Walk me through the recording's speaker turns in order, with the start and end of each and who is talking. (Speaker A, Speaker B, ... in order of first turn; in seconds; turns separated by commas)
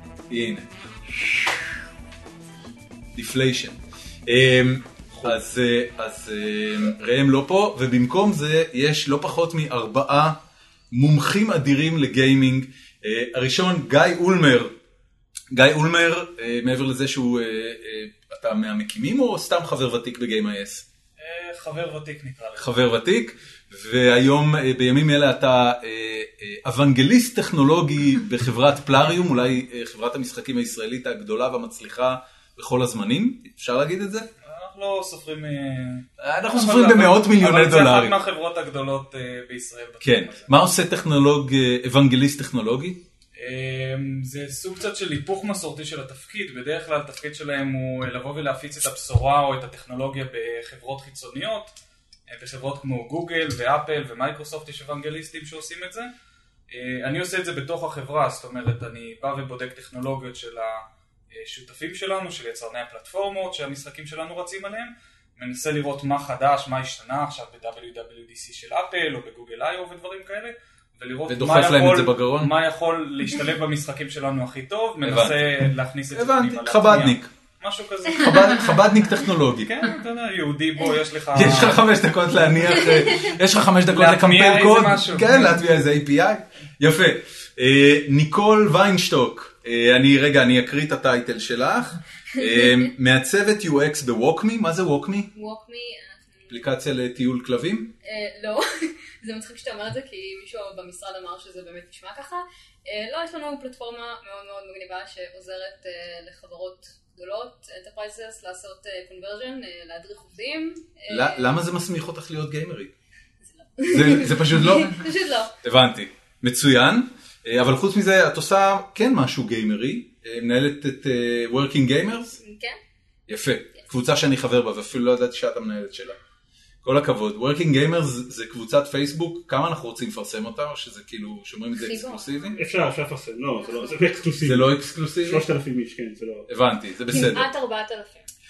Speaker A: 0.3-0.7, Speaker A: 3.1-10.3, Speaker A: 10.9-14.7, Speaker A: 15.5-20.8, Speaker B: 21.2-22.8, Speaker A: 22.6-34.3, Speaker B: 34.4-40.5, Speaker A: 36.2-38.2, Speaker A: 40.0-43.0, Speaker B: 43.4-51.8, Speaker B: 52.3-56.1, Speaker B: 56.7-78.8, Speaker A: 71.3-72.5, Speaker A: 75.0-77.3, Speaker A: 78.2-79.7, Speaker B: 79.6-81.8, Speaker A: 81.3-95.3, Speaker B: 83.9-85.6, Speaker C: 92.4-92.7, Speaker C: 95.3-96.6, Speaker A: 96.5-97.9, Speaker C: 98.0-111.5, Speaker A: 111.1-112.9, Speaker C: 113.4-115.5, Speaker A: 113.9-115.0, Speaker A: 115.6-122.4, Speaker C: 122.4-122.8, Speaker A: 123.3-126.2, Speaker A: 126.8-132.6, Speaker C: 131.7-132.6, Speaker D: 132.5-134.7, Speaker C: 133.6-134.1, Speaker A: 134.4-135.4, Speaker D: 135.2-136.5, Speaker A: 136.5-137.5, Speaker C: 137.1-138.3